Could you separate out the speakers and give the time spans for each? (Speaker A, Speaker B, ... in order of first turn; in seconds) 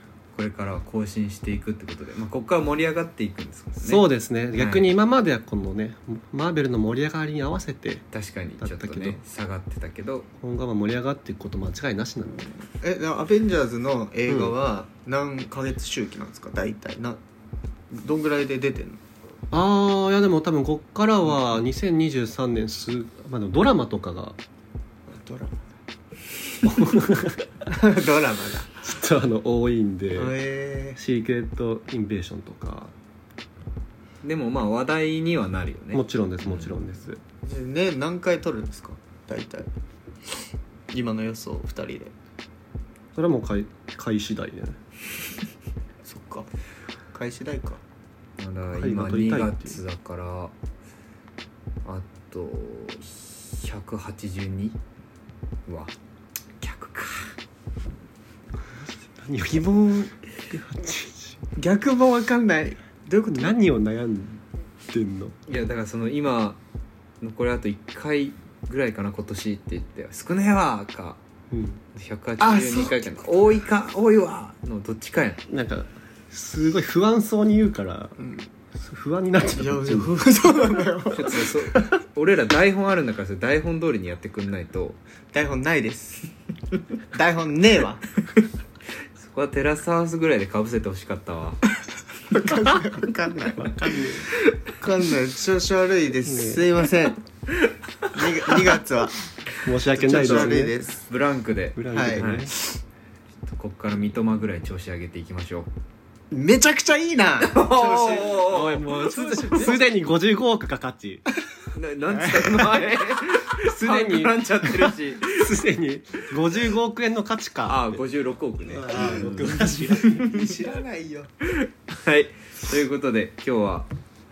Speaker A: 0.3-4.0, 4.5-4.9, 8.1-10.3, 34.2-36.7, 48.4-50.5, 51.9-54.8, 55.7-55.9, 56.6-57.4, 65.5-66.6, 67.2-71.2, 72.0-75.5, 81.1-85.0, 89.2-91.6, 98.0-98.6, 101.1-102.5, 103.5-105.7, 107.4-109.8, 111.7-115.5, 117.7-120.5, 121.5-123.9
Speaker B: 3.8-8.1, 8.6-9.2, 10.4-12.5, 14.3-14.5, 19.5-24.4, 26.6-27.7, 28.8-30.4, 31.0-32.9, 35.9-37.2, 43.1-44.8, 48.8-49.8, 59.2-59.7, 60.5-61.4, 63.3-65.4, 71.5-71.8, 75.5-78.2, 78.7-80.2, 96.3-96.6, 99.6-100.8, 101.8-102.5, 108.5-111.2, 113.6-118.0, 118.7-120.3
Speaker C: 12.8-17.2, 17.9-19.0, 25.1-25.6, 27.7-28.8, 30.1-31.0, 37.4-39.7, 40.9-42.1, 46.0-46.5, 47.1-47.8, 59.5-60.1, 61.6-63.5, 72.4-73.2, 78.2-78.5, 79.5-81.9, 85.3-86.3, 87.1-88.1, 92.3-97.2, 98.1-99.2, 99.9-101.1, 101.9-102.8, 106.3-108.5, 112.1-112.9, 118.8-121.3